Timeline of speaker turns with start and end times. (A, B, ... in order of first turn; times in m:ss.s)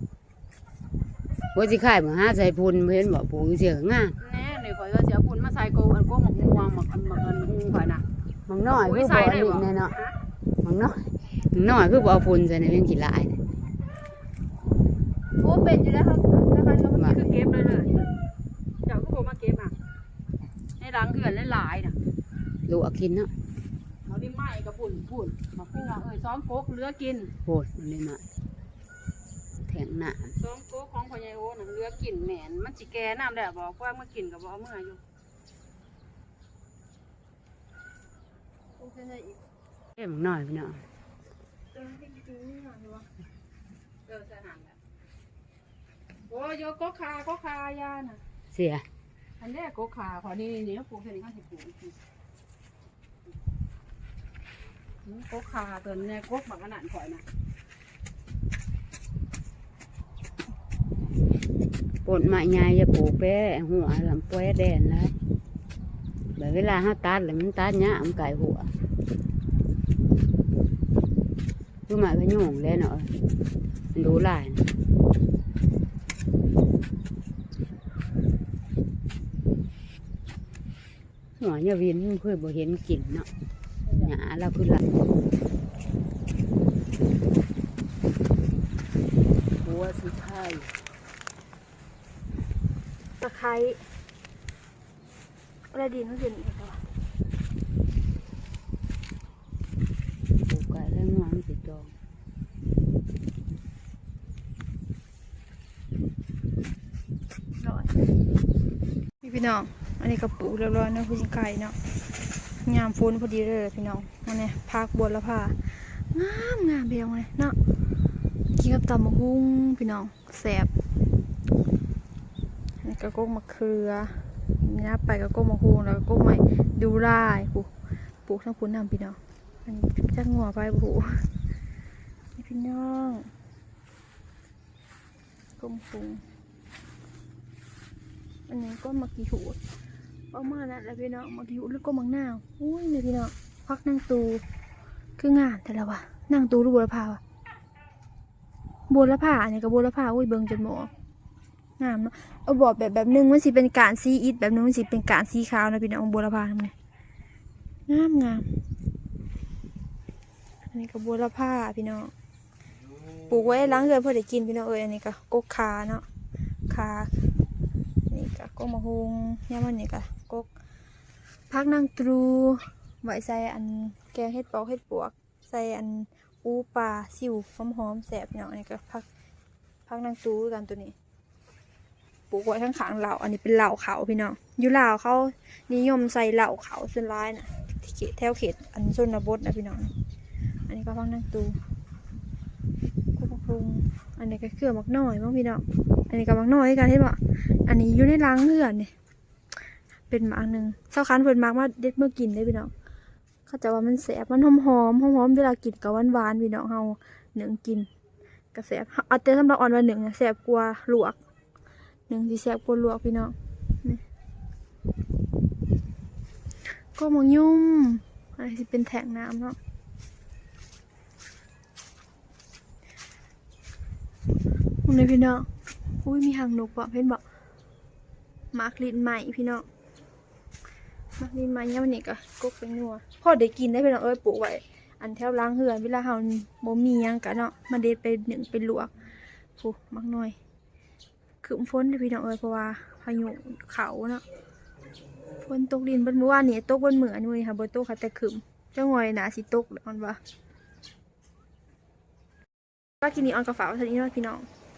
0:01.5-0:04.2 A
0:04.2-0:08.0 B
0:08.5-0:10.0 A
0:08.6-0:10.2 B
0:10.6-0:13.4 A
0:15.4-0:18.1 B
0:16.9-0:17.2 A
0:18.8-0:19.8 B
0:20.8-0:22.0 B
0:22.7-0:23.3 A
0:24.0-0:27.3 B
0:27.4-0:28.2 A
0:29.6-0:30.4 A
0:30.4-0:35.0 B
0:38.8-0:39.3 C
0:40.0-0:40.9 A
0:41.7-0:43.1 C
0:44.1-0:44.8 B
0:46.3-0:48.2 B
0:48.5-0:48.9 A
0:49.4-0:52.0 B
0:55.0-0:57.2 B
1:02.0-1:05.1 A
1:06.4-1:08.7 A
1:11.9-1:13.1 A
1:13.9-1:14.7 A
1:21.4-1:23.3 A
1:23.9-1:24.8 A
1:29.6-1:30.8 A
1:33.2-1:33.9 C
1:35.7-1:36.8 C
1:40.5-1:41.9 A
1:47.6-1:47.9 C
1:49.2-1:51.8 C
1:52.6-1:57.6 C
1:58.5-2:00.7 C
2:02.8-2:07.7 C
2:08.2-2:11.3 C
2:12.4-2:13.3 C
2:15.6-2:16.2 C
2:18.5-2:19.6 C
2:20.3-2:24.4 C
2:25.2-2:27.2 C
2:28.9-2:30.9 C
2:31.8-2:36.7 C
2:37.9-2:38.6 C
2:40.7-2:42.1 C
2:43.3-2:46.1 C
2:46.7-2:47.3 C
2:48.1-2:50.5 C
2:51.5-2:59.1 C
2:59.9-3:00.9 C
3:02.3-3:09.9 C
3:10.7-3:11.6 C
3:13.2-3:18.9 C
3:19.5-3:22.7 C
3:23.5-3:27.9 C
3:28.5-3:31.2 C
3:32.1-3:34.0 C
3:36.7-3:39.6 C
3:44.8-3:45.5 C
3:46.0-3:47.2 C
3:48.5-3:49.7 C
3:51.2-3:58.9 C
3:59.6-4:00.4 C
4:01.4-4:04.2 C
4:05.4-4:10.2 C
4:13.0-4:14.5 C